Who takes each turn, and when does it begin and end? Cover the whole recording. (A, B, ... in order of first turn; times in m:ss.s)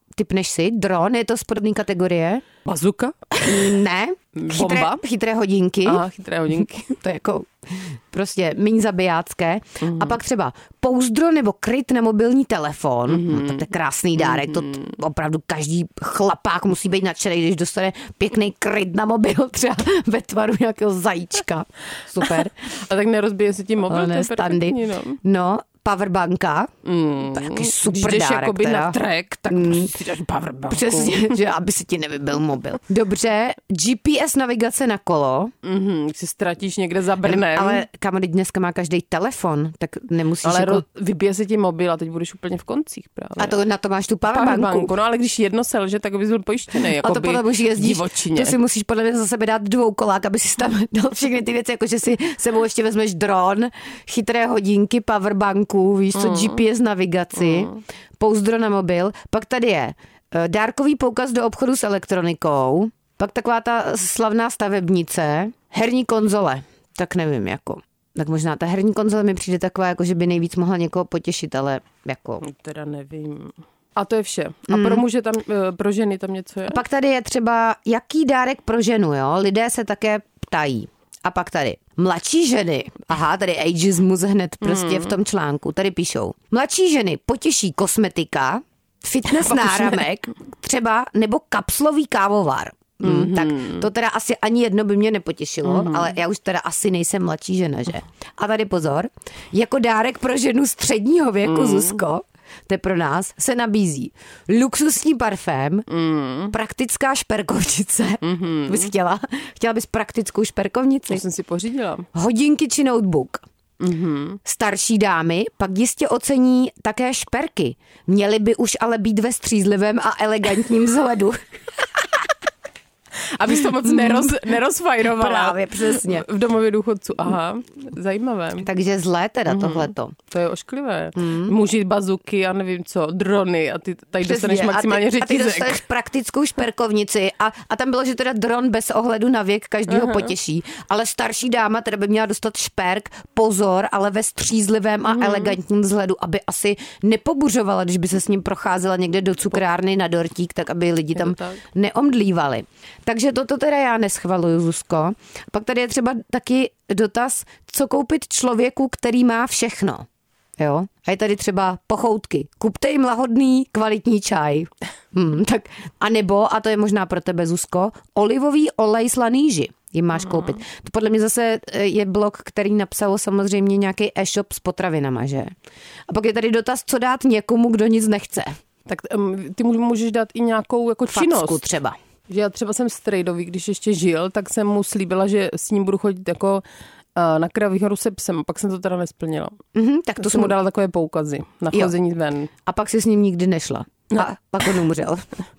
0:00.2-0:02.5 A
0:02.6-0:03.8 B
0:03.4-0:06.0 A
0:04.4-0:05.0 B
0:05.8-0:07.0 B
0:06.9-0:22.5 A
0:09.8-0:10.2 B
0:13.1-0:14.9 B
0:22.2-0:25.2 B
0:23.9-0:26.7 A
0:26.8-0:31.2 B
0:27.3-0:30.0 A
0:30.7-0:35.5 A
0:35.6-0:37.8 B
0:37.2-0:40.8 A
0:40.4-0:43.6 B
0:43.4-0:44.9 A
0:44.3-0:48.6 B
0:47.0-1:12.4 A
0:56.2-0:56.6 B
0:57.4-0:57.8 B
1:12.4-1:16.8 B
1:14.7-1:15.0 A
1:16.7-1:45.9 A
1:24.6-1:25.1 B
1:29.4-1:30.0 B
1:33.0-1:33.9 B
1:35.6-1:36.1 B
1:41.4-1:42.0 B
1:45.9-1:46.5 B
1:46.5-1:51.2 A
1:48.2-1:48.9 B
1:51.1-1:52.1 B
1:52.1-1:53.4 A
1:53.8-1:54.4 B
1:54.4-2:01.4 A
2:03.4-2:08.7 B
2:03.8-2:04.3 A
2:05.0-2:06.3 A
2:08.6-2:10.2 A
2:09.5-2:15.8 B
2:11.2-2:11.5 A
2:14.2-2:40.1 A
2:19.9-2:20.3 B
2:25.1-2:25.6 B
2:31.2-2:31.6 B
2:40.6-2:55.5 A
2:50.3-2:50.5 B
2:56.1-2:58.6 A
2:58.9-3:01.6 B
3:01.1-3:02.0 A
3:02.3-3:06.6 B
3:07.2-3:09.6 B
3:09.8-3:10.5 A
3:10.2-3:12.5 B
3:12.7-3:15.3 A